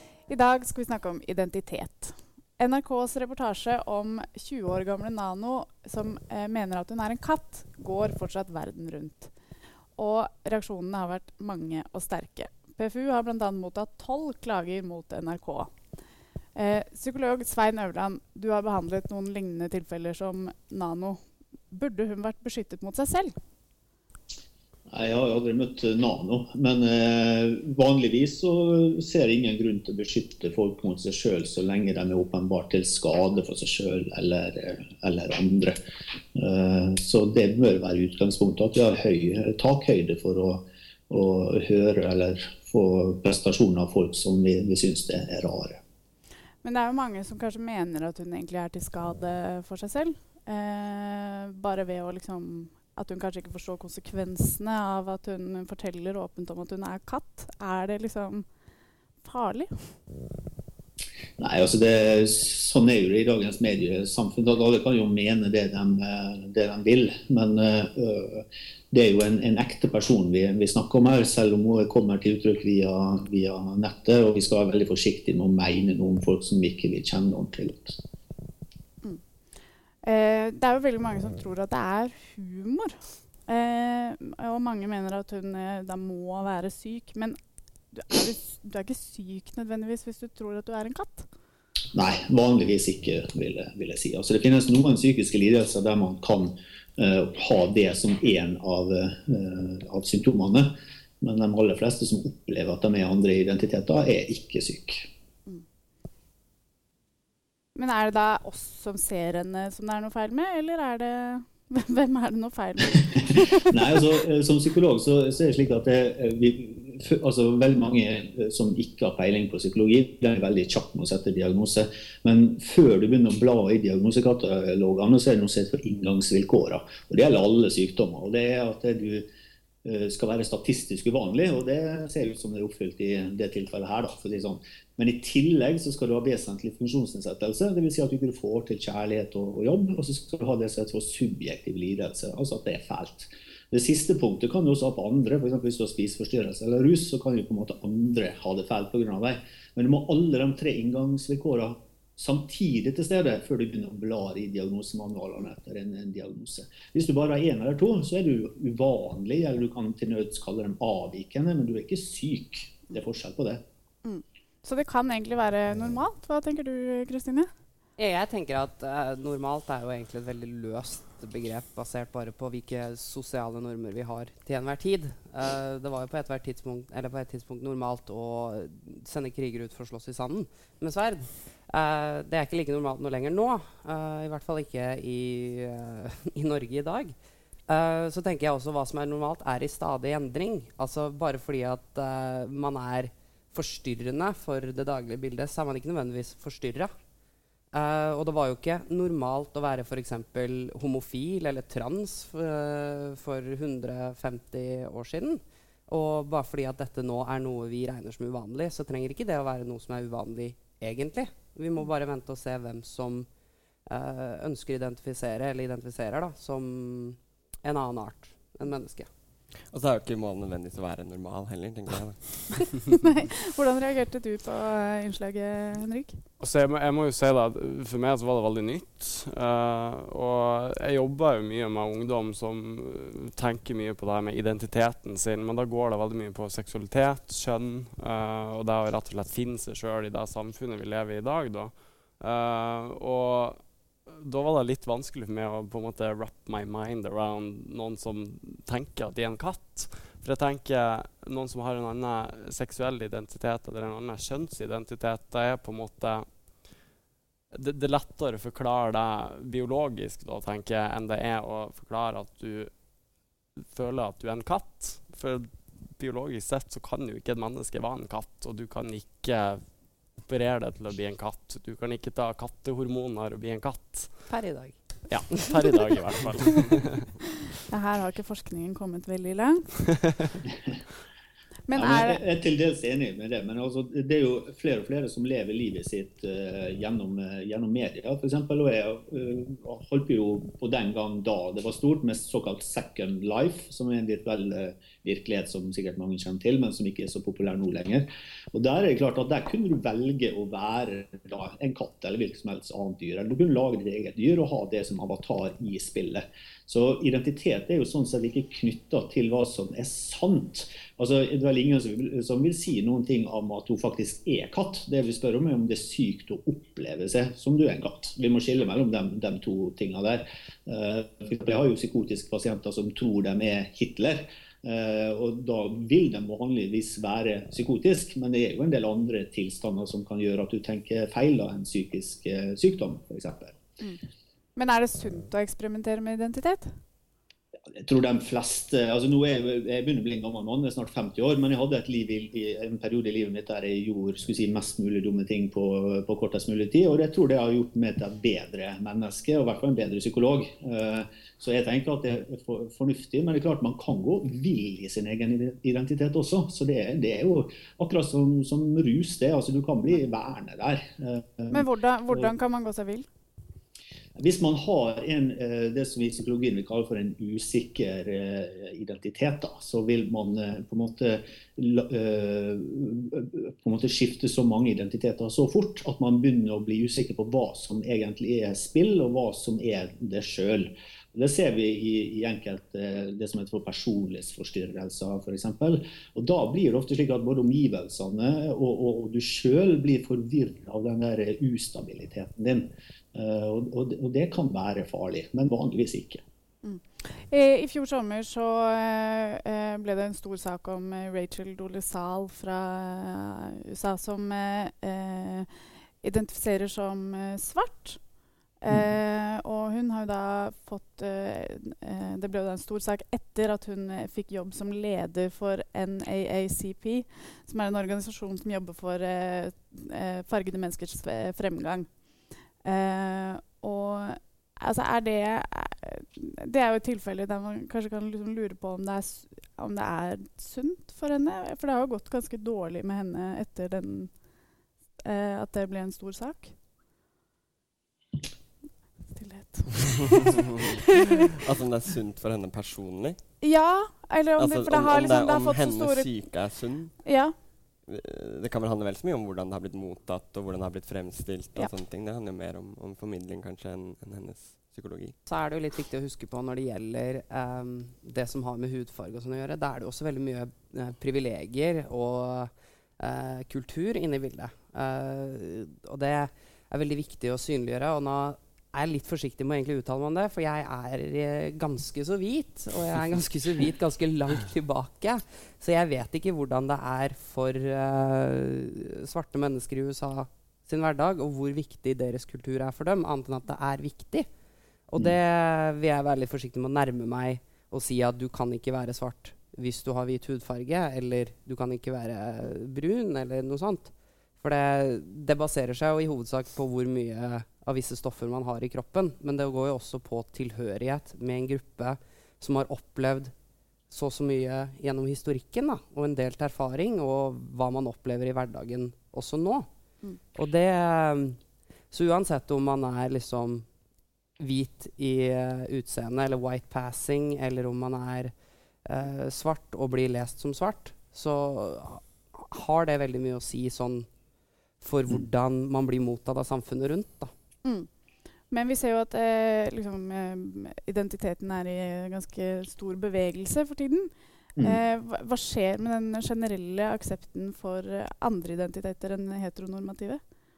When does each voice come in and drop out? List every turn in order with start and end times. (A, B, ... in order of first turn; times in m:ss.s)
0:00.3-0:09.3 A
0:10.0-0:15.7 A
0:16.5-0:21.2 A
0:21.7-0:23.3 A
0:24.9-0:35.8 B
0:36.3-0:45.8 B
0:46.6-0:58.5 A
0:59.2-1:00.0 A
1:01.4-1:18.0 B
1:20.0-1:27.4 A
1:27.9-1:31.3 A
1:31.9-1:45.1 B
1:47.8-1:53.8 A
1:53.6-2:09.3 B
2:09.8-2:43.6 B
2:44.0-2:47.5 A
2:48.0-3:07.1 C
3:07.7-3:16.9 C
3:17.7-3:33.3 C
3:33.9-3:39.1 C
3:39.7-3:42.8 D
3:43.0-3:46.2 A
3:46.4-4:16.3 E
4:17.5-4:22.7 E
4:23.7-4:29.6 E
4:30.2-4:34.2 E
4:34.3-4:34.7 C
4:35.1-4:37.1 E
4:35.4-4:35.7 C
4:37.7-4:39.8 A
4:41.7-4:42.2 A
4:41.7-5:33.6 B
5:34.6-5:36.7 A
5:37.7-6:02.2 B
6:01.5-6:03.1 A
6:04.2-6:36.2 B
6:36.6-6:45.5 A
6:46.0-6:48.1 A
6:48.6-7:01.9 A
7:02.6-7:14.2 A
7:15.0-7:16.5 A
7:19.1-7:21.1 A
7:21.2-7:23.2 D
7:23.4-7:26.1 A
7:24.4-7:26.9 D
7:27.0-7:27.3 A
7:27.9-7:35.2 D
7:35.2-8:04.3 C
8:04.9-8:23.3 C
8:23.9-8:29.7 C
8:30.3-8:31.4 C
8:31.9-8:33.6 C
8:34.4-8:38.3 C
8:38.8-8:44.1 C
8:44.8-8:47.3 C
8:48.5-9:00.2 A